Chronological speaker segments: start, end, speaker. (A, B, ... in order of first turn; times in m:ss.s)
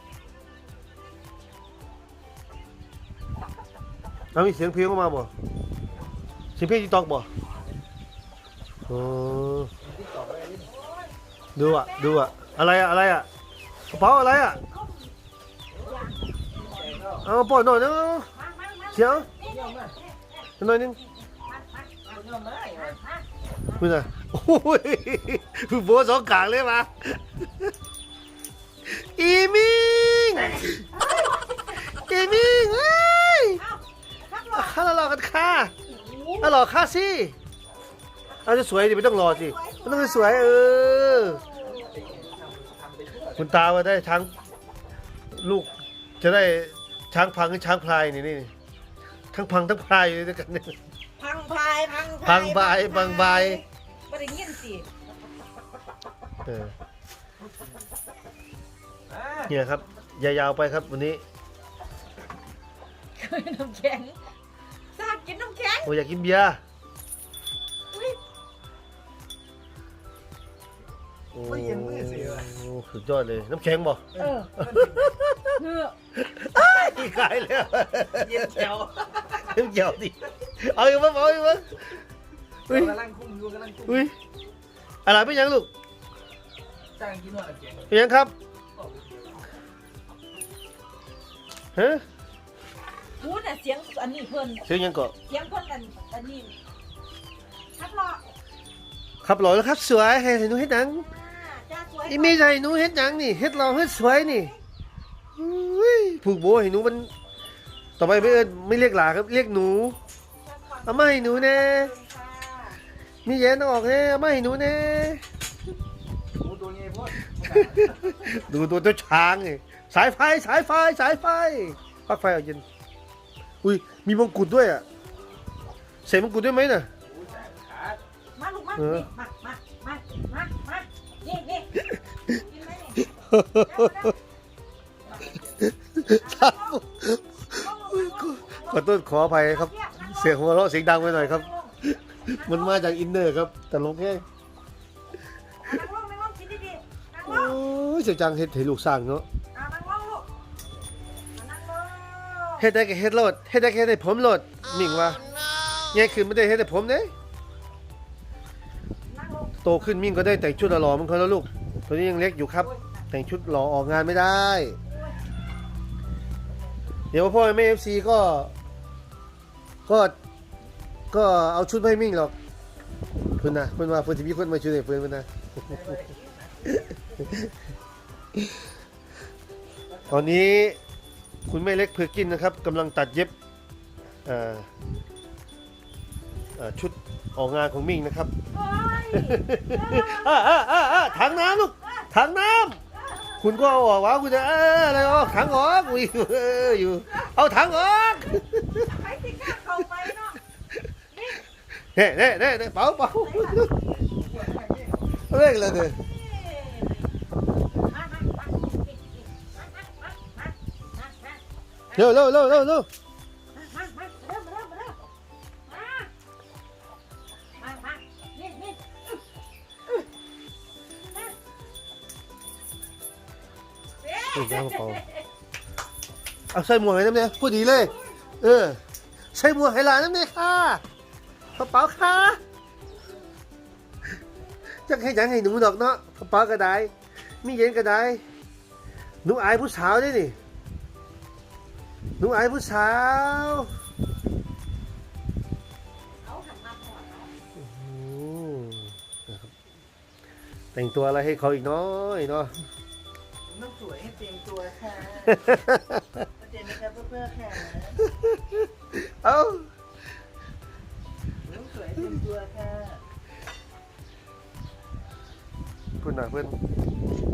0:04.3-0:05.3 A
0:06.6-0:07.3 A
0:08.9-0:09.7 A
0:09.8-0:10.7 B
0:10.7-0:12.3 C
0:11.6-0:13.3 A
0:13.9-0:14.6 A
0:14.6-0:15.1 C
0:15.7-0:17.3 B
0:15.8-0:17.2 C
0:17.2-0:18.3 A
0:18.4-0:20.5 C
0:18.9-0:19.3 A
0:19.4-0:20.0 B
0:20.6-0:21.0 A
0:21.0-0:22.2 C
0:22.1-0:23.0 B
0:22.7-0:23.2 C
0:23.7-0:27.7 A
0:28.8-0:30.8 A
0:30.9-0:31.8 C
0:31.9-0:33.6 A
0:33.6-0:34.8 C
0:34.5-0:35.7 A
0:35.9-0:36.5 C
0:36.4-0:37.4 A
0:38.4-0:41.5 A
0:39.2-0:41.9 C
0:41.6-0:43.6 B
0:43.4-0:44.3 A
0:45.3-0:48.5 A
0:49.3-0:50.8 A
0:51.2-0:54.9 C
0:52.2-0:53.6 A
0:56.4-0:56.7 A
0:59.1-0:59.5 B
0:59.5-1:01.2 A
1:03.2-1:04.2 C
1:04.9-1:05.9 C
1:05.8-1:06.6 A
1:07.9-1:08.2 C
1:11.3-1:15.6 A
1:11.4-1:12.5 B
1:14.2-1:15.2 B
1:14.2-1:14.5 C
1:15.6-1:16.0 C
1:16.2-1:18.8 A
1:16.6-1:17.1 C
1:18.1-1:19.4 B
1:19.4-1:21.8 A
1:22.7-1:24.1 B
1:22.7-1:23.0 A
1:23.9-1:24.1 A
1:25.0-1:25.7 A
1:27.0-1:28.0 B
1:27.9-1:28.3 A
1:28.8-1:29.5 B
1:31.8-1:32.0 A
1:33.2-1:34.6 C
1:34.6-1:35.2 A
1:35.2-1:36.6 C
1:37.8-1:38.2 C
1:39.2-1:41.1 A
1:41.0-1:42.5 C
1:42.1-1:44.5 A
1:43.7-1:44.6 C
1:45.4-1:47.1 A
1:48.0-1:50.0 A
1:48.0-1:48.4 C
1:50.4-1:52.8 C
1:50.8-1:51.9 A
1:53.2-1:55.2 A
1:56.4-1:58.2 B
1:57.4-2:02.6 A
2:03.6-2:04.8 A
2:06.0-2:06.9 A
2:07.0-2:08.0 B
2:08.4-2:14.2 C
2:08.8-2:09.1 A
2:13.1-2:14.1 A
2:15.0-2:15.7 B
2:15.8-2:24.2 A
2:16.0-2:16.8 C
2:17.5-2:18.8 C
2:19.5-2:20.3 C
2:21.0-2:21.7 C
2:22.3-2:23.0 C
2:25.6-2:27.6 C
2:27.2-2:29.3 A
2:29.5-2:30.3 C
2:31.3-2:32.6 C
2:32.6-2:35.2 A
2:35.0-2:35.8 C
2:35.9-2:37.1 A
2:39.1-2:39.6 C
2:39.6-2:44.8 A
2:42.6-2:43.0 C
2:44.9-2:45.2 C
2:47.1-2:48.5 A
2:49.9-2:50.2 A
2:51.1-2:52.3 A
2:53.4-2:55.3 A
2:55.7-2:57.0 B
3:00.0-3:00.4 B
3:00.1-3:00.8 A
3:01.5-3:03.3 A
3:04.2-3:04.7 A
3:06.6-3:08.4 A
3:08.5-3:12.1 C
3:09.1-3:12.8 A
3:13.0-3:13.5 C
3:13.4-3:18.8 A
3:15.0-3:16.1 C
3:16.7-3:17.3 C
3:18.1-3:20.4 C
3:21.1-3:21.4 C
3:21.8-3:23.7 A
3:23.1-3:23.7 C
3:24.1-3:25.0 B
3:25.3-3:26.0 A
3:26.1-3:27.1 C
3:27.7-3:31.4 C
3:31.9-3:32.3 C
3:31.9-3:32.9 A
3:33.6-3:35.1 C
3:35.7-3:36.1 C
3:37.6-3:39.2 C
3:44.0-3:45.3 C
3:44.3-3:45.0 A
3:46.5-3:48.8 A
3:47.7-3:48.3 C
3:49.3-3:50.8 A
3:51.6-3:52.4 A
3:54.9-3:58.2 A
3:59.2-4:00.4 A
4:02.2-4:03.7 A
4:06.2-4:07.3 C
4:07.6-4:09.5 A
4:10.7-4:12.6 A
4:13.5-4:15.4 D
4:15.4-4:16.2 A
4:16.4-4:18.0 D
4:18.2-4:19.7 A
4:21.4-4:23.0 D
4:26.0-4:26.6 A